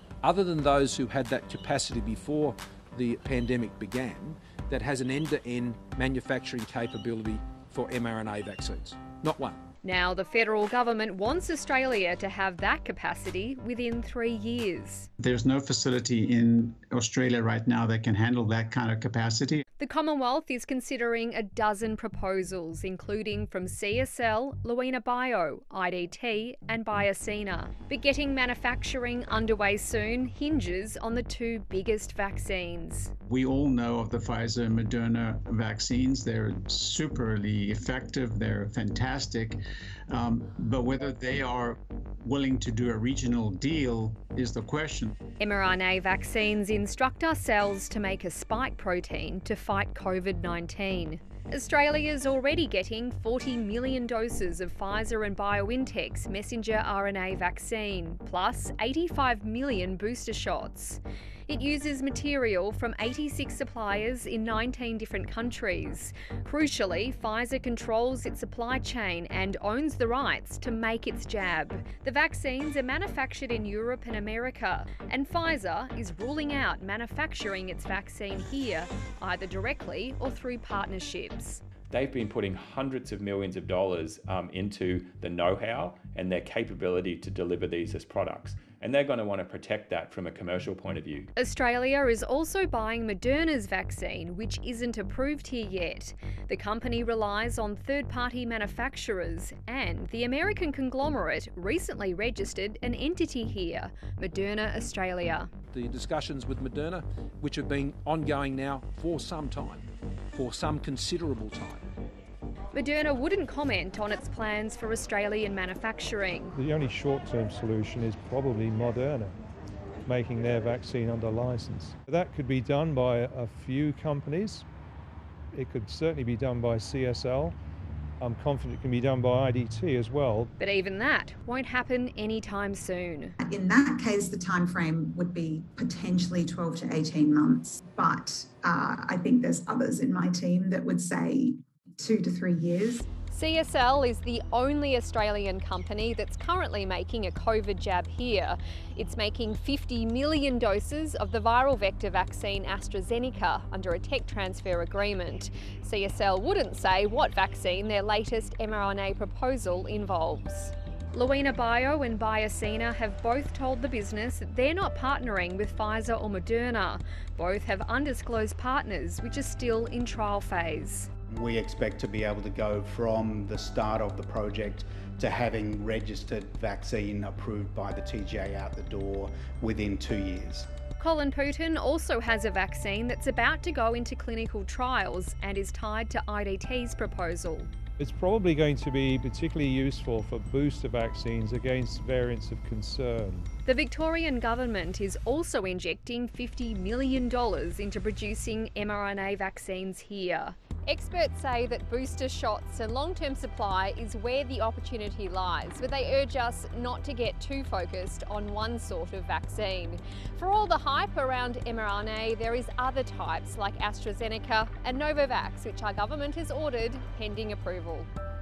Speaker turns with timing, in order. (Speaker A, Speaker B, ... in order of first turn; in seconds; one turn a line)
Speaker A: 0.2-9.6
Speaker B: 9.8-15.1
Speaker C: 15.2-19.6
Speaker B: 19.8-33.1
Speaker C: 33.2-45.2
Speaker B: 45.4-81.6
Speaker D: 81.9-91.3
Speaker B: 91.4-105.5
Speaker A: 105.7-111.8
Speaker B: 112.7-116.6
Speaker E: 116.5-119.4
Speaker E: 120.1-124.7
Speaker E: 125.5-127.5
Speaker E: 128.2-130.5
Speaker B: 130.6-133.4
Speaker F: 133.4-143.1
Speaker B: 143.3-171.1
Speaker G: 171.3-180.7
Speaker B: 181.0-187.7
Speaker E: 188.0-193.5
Speaker B: 193.7-218.1